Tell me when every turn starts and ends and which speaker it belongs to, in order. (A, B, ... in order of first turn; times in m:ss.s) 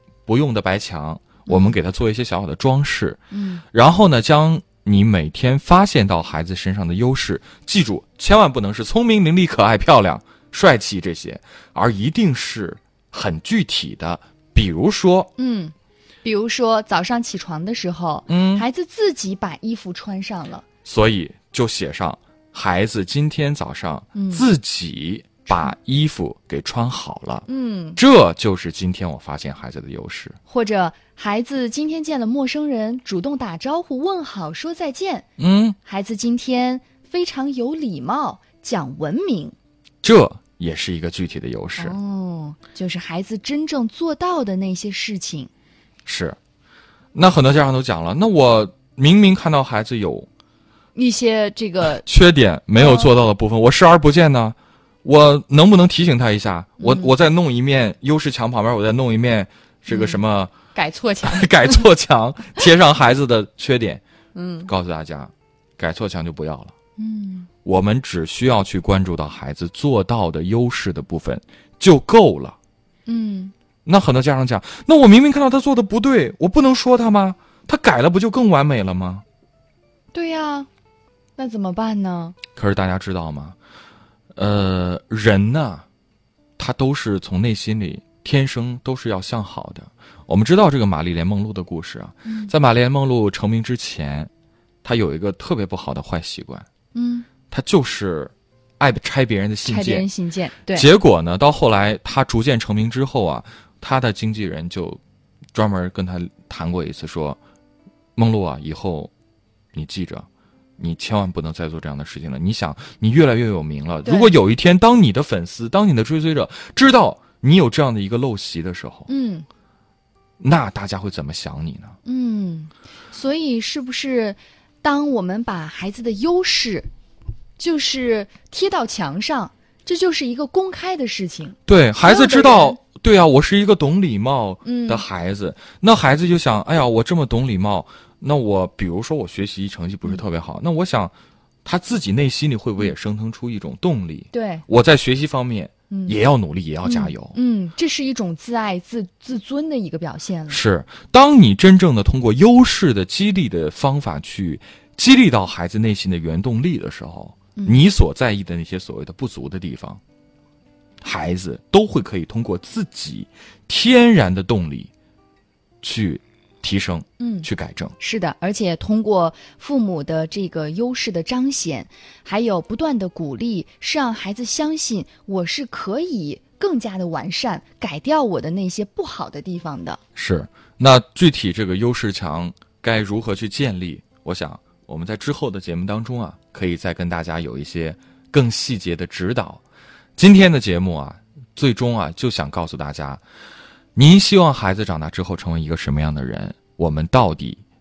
0:00.3-0:03.2 A
0:01.5-0:01.8 B
0:03.3-0:03.6 B
0:03.7-0:15.3 A
0:15.4-0:20.6 B
0:18.3-0:18.6 A
0:20.8-0:27.4 A
0:24.2-0:24.5 B
0:27.5-0:28.0 B
0:28.0-0:30.4 A
0:30.5-0:35.3 B
0:35.4-0:35.8 A
0:35.8-0:39.6 B
0:40.0-0:42.0 A
0:41.8-0:45.5 B
0:46.0-0:46.4 A
0:47.1-0:50.3 A
0:51.0-0:52.1 B
0:52.0-1:00.5 A
0:52.8-0:53.1 B
0:56.8-0:57.1 B
0:59.9-1:00.2 B
1:00.7-1:01.9 B
1:01.2-1:04.0 A
1:04.4-1:04.7 B
1:04.7-1:06.7 A
1:07.0-1:07.5 B
1:07.6-1:12.6 A
1:13.1-1:13.5 B
1:13.8-1:19.2 A
1:20.1-1:20.7 B
1:21.4-1:22.4 B
1:22.6-1:23.6 A
1:24.3-1:25.9 A
1:26.6-1:34.3 A
1:32.2-1:32.5 B
1:34.8-1:36.7 A
1:36.9-1:37.3 B
1:37.5-1:40.1 A
1:39.6-1:40.9 B
1:40.7-1:45.0 A
1:45.5-1:47.4 A
1:48.2-1:49.1 A
1:49.7-1:59.1 A
1:54.0-1:54.3 B
1:59.1-1:59.5 B
2:00.4-2:02.0 A
2:02.0-2:06.9 B
2:07.6-2:12.8 B
2:11.7-2:21.1 A
2:14.6-2:15.0 B
2:21.6-2:27.4 A
2:24.3-2:24.6 B
2:25.9-2:26.2 B
2:26.8-2:30.6 B
2:30.5-2:40.0 A
2:37.6-2:37.8 B
2:41.0-2:44.9 A
2:45.8-2:47.9 A
2:47.2-2:47.5 B
2:48.0-3:00.0 B
3:00.2-3:09.6 A
3:10.2-3:13.2 A
3:14.0-3:17.6 A